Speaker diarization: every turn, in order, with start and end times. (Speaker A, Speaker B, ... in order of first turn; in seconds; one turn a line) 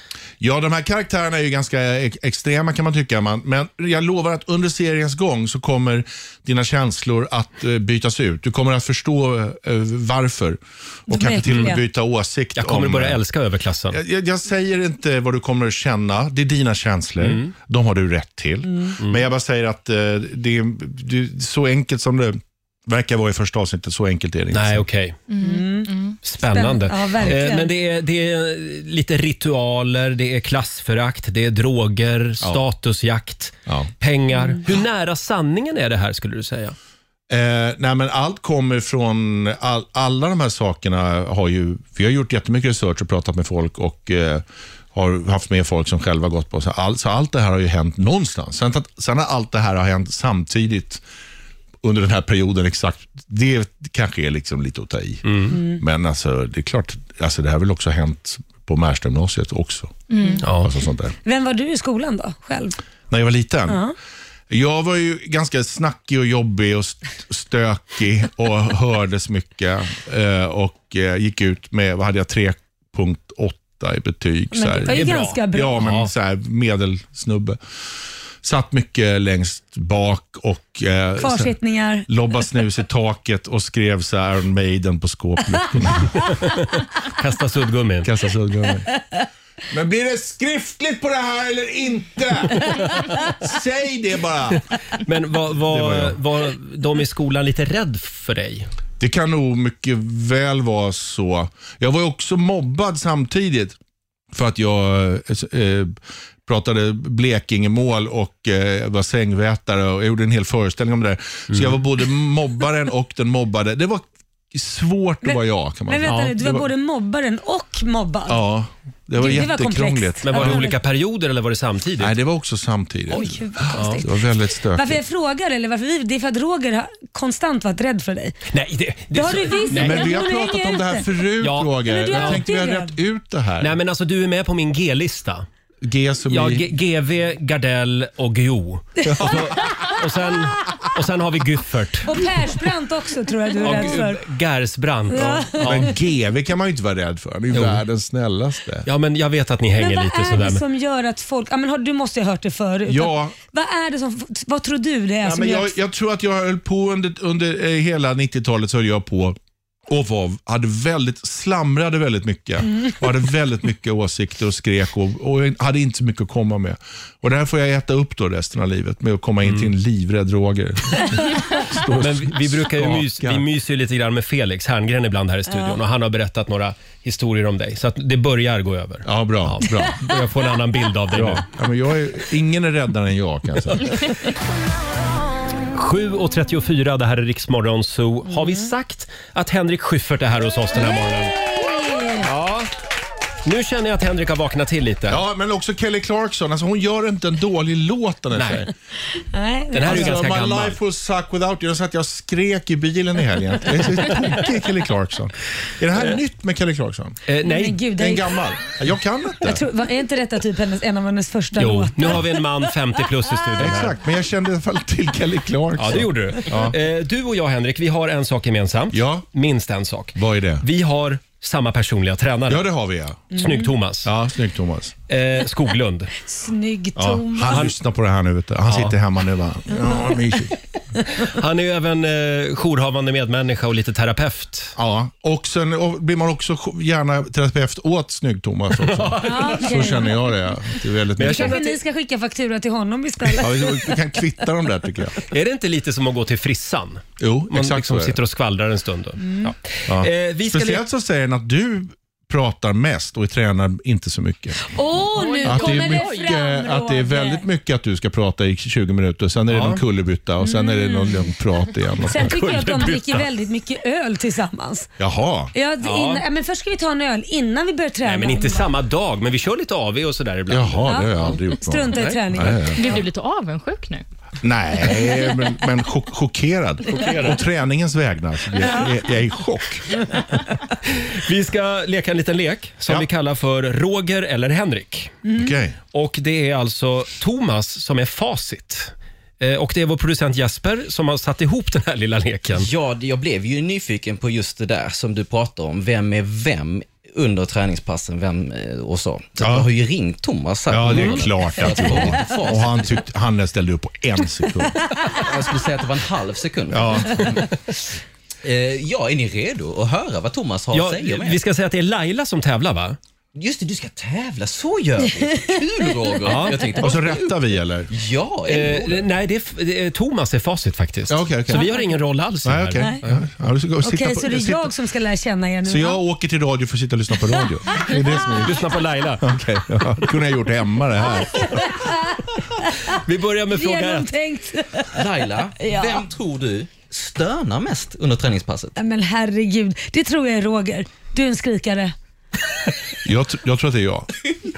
Speaker A: 0.4-13.2
Speaker B: 11.1-11.8
Speaker C: 11.4-11.8
Speaker C: 12.6-14.0
Speaker A: 13.9-24.9
Speaker C: 17.2-17.5
Speaker B: 18.7-18.9
Speaker C: 19.0-19.2
Speaker C: 24.5-25.2
Speaker D: 25.3-26.2
Speaker B: 25.4-27.7
Speaker C: 26.2-36.8
Speaker A: 33.7-33.9
Speaker A: 37.3-51.0
Speaker A: 51.8-60.0
Speaker C: 55.2-55.6
Speaker B: 55.5-55.8
Speaker D: 60.1-60.5
Speaker C: 60.4-60.7
Speaker A: 60.6-61.1
Speaker B: 61.2-62.8
Speaker A: 63.1-63.9
Speaker B: 63.7-63.9
Speaker A: 64.5-77.6
Speaker B: 74.5-75.8
Speaker C: 74.8-76.1
Speaker A: 78.4-81.6
Speaker B: 81.2-82.1
Speaker A: 82.1-86.3
Speaker C: 86.1-88.1
Speaker A: 88.0-88.9
Speaker A: 89.7-94.6
Speaker C: 95.0-98.7
Speaker A: 95.6-96.2
Speaker A: 99.0-103.8
Speaker A: 104.3-116.7
Speaker C: 111.5-111.8
Speaker B: 115.2-118.5
Speaker C: 116.0-116.4
Speaker A: 118.3-120.6
Speaker B: 119.2-120.7
Speaker C: 120.2-122.2
Speaker A: 122.0-125.0
Speaker B: 123.1-124.1
Speaker C: 123.7-124.0
Speaker B: 124.7-128.3
Speaker C: 128.5-130.2
Speaker B: 129.1-131.1
Speaker A: 129.7-133.8
Speaker C: 131.4-132.4
Speaker B: 131.8-132.9
Speaker C: 133.6-135.5
Speaker A: 135.8-136.7
Speaker C: 136.2-142.2
Speaker A: 139.1-139.4
Speaker B: 139.1-139.3
Speaker B: 142.1-144.2
Speaker C: 143.6-145.9
Speaker B: 145.1-145.9
Speaker A: 145.2-148.9
Speaker C: 147.5-147.8
Speaker C: 148.8-150.6
Speaker B: 149.8-155.8
Speaker A: 152.9-153.3
Speaker A: 155.2-159.3
Speaker A: 159.9-173.5
Speaker C: 169.4-169.7
Speaker C: 172.0-181.5
Speaker A: 179.0-180.1
Speaker A: 181.1-184.0
Speaker C: 185.7-191.3
Speaker B: 191.4-192.2
Speaker C: 192.2-192.7
Speaker C: 193.4-195.2
Speaker A: 195.1-198.7
Speaker C: 198.3-198.7
Speaker B: 199.3-200.2
Speaker C: 199.7-200.8
Speaker A: 199.8-207.2
Speaker C: 207.3-207.9
Speaker B: 207.4-208.4
Speaker A: 207.9-209.6
Speaker B: 209.4-212.2
Speaker C: 211.6-214.0
Speaker A: 213.6-216.8
Speaker C: 215.7-222.7
Speaker A: 218.9-219.2
Speaker A: 220.1-220.6
Speaker A: 222.5-223.3
Speaker B: 223.3-223.7
Speaker C: 223.3-224.1
Speaker A: 224.0-224.9
Speaker C: 225.1-226.1
Speaker B: 226.2-227.6
Speaker A: 226.9-230.6
Speaker C: 227.4-227.7
Speaker C: 228.7-229.0
Speaker C: 231.2-234.8
Speaker A: 234.8-241.6
Speaker C: 238.7-240.1
Speaker B: 239.2-240.2
Speaker C: 241.2-241.8
Speaker B: 241.2-243.9
Speaker A: 243.4-245.2
Speaker C: 245.3-250.9
Speaker A: 247.2-248.2
Speaker B: 249.2-249.5
Speaker A: 249.9-254.6
Speaker B: 254.7-257.4
Speaker A: 255.4-262.3
Speaker C: 255.4-256.1
Speaker C: 259.5-259.8
Speaker B: 260.4-261.3
Speaker B: 262.0-264.9
Speaker C: 262.1-263.3
Speaker A: 265.0-265.5
Speaker B: 265.5-268.7
Speaker C: 265.8-266.2
Speaker C: 268.0-271.0
Speaker A: 270.5-272.8
Speaker B: 270.8-273.0
Speaker C: 271.9-272.5
Speaker D: 272.8-274.0
Speaker A: 274.4-279.8
Speaker C: 276.9-277.4
Speaker C: 280.9-285.2
Speaker A: 285.3-285.8
Speaker C: 285.9-292.7
Speaker E: 292.5-303.0
Speaker A: 299.4-299.7
Speaker A: 300.7-304.7
Speaker C: 300.9-302.1
Speaker E: 305.1-307.4
Speaker A: 306.7-307.3
Speaker E: 308.4-311.4
Speaker C: 310.7-313.0
Speaker E: 313.3-319.1
Speaker C: 316.2-316.8
Speaker A: 316.8-317.9
Speaker C: 318.5-323.3
Speaker A: 321.1-321.7
Speaker B: 321.5-322.0
Speaker A: 322.4-324.7
Speaker B: 322.8-323.0
Speaker B: 323.8-326.0
Speaker A: 325.6-328.6
Speaker C: 328.4-329.3
Speaker A: 329.2-331.7
Speaker B: 331.1-333.0
Speaker C: 332.9-334.1
Speaker B: 333.5-334.9
Speaker E: 334.9-338.8
Speaker B: 335.6-336.0
Speaker B: 338.8-341.9
Speaker A: 343.0-344.1